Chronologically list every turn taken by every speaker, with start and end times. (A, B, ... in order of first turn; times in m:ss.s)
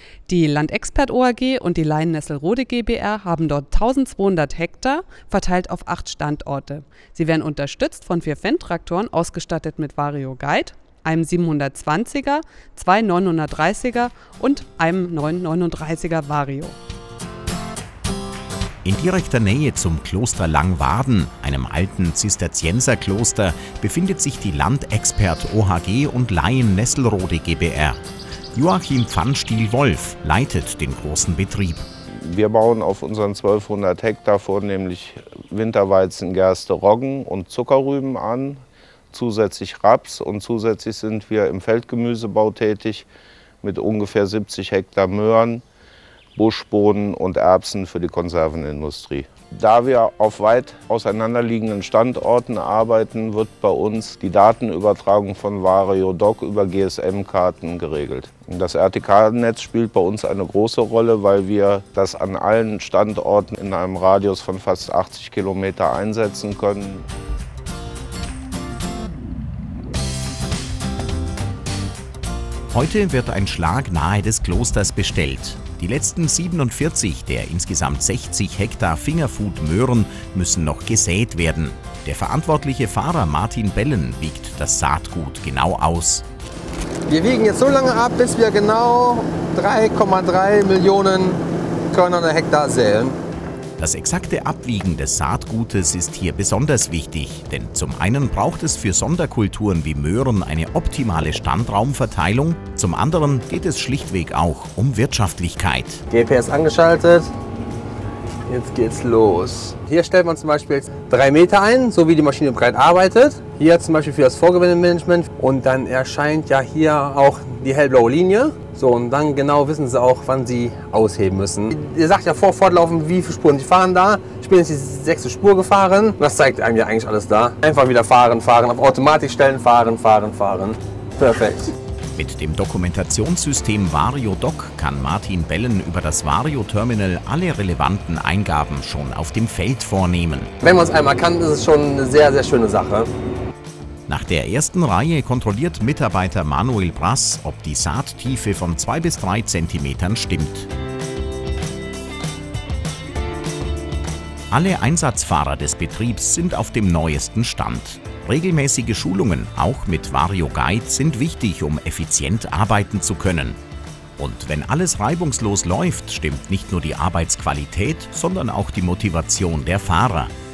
0:00.3-0:16.8 A
0:18.8-0:28.0 B
0:28.5-0:31.8 B
0:32.2-0:43.1 C
0:43.6-0:45.6 C
0:46.4-1:07.0 C
1:12.7-1:26.2 B
1:27.1-1:31.4 D
1:31.9-1:33.2 D
1:33.8-1:46.0 B
1:46.1-1:47.3 D
1:48.5-2:11.7 D
2:12.1-2:20.5 B
2:20.6-2:23.1 D
2:24.1-2:30.7 B
2:34.5-2:43.6 B
2:44.2-2:50.3 B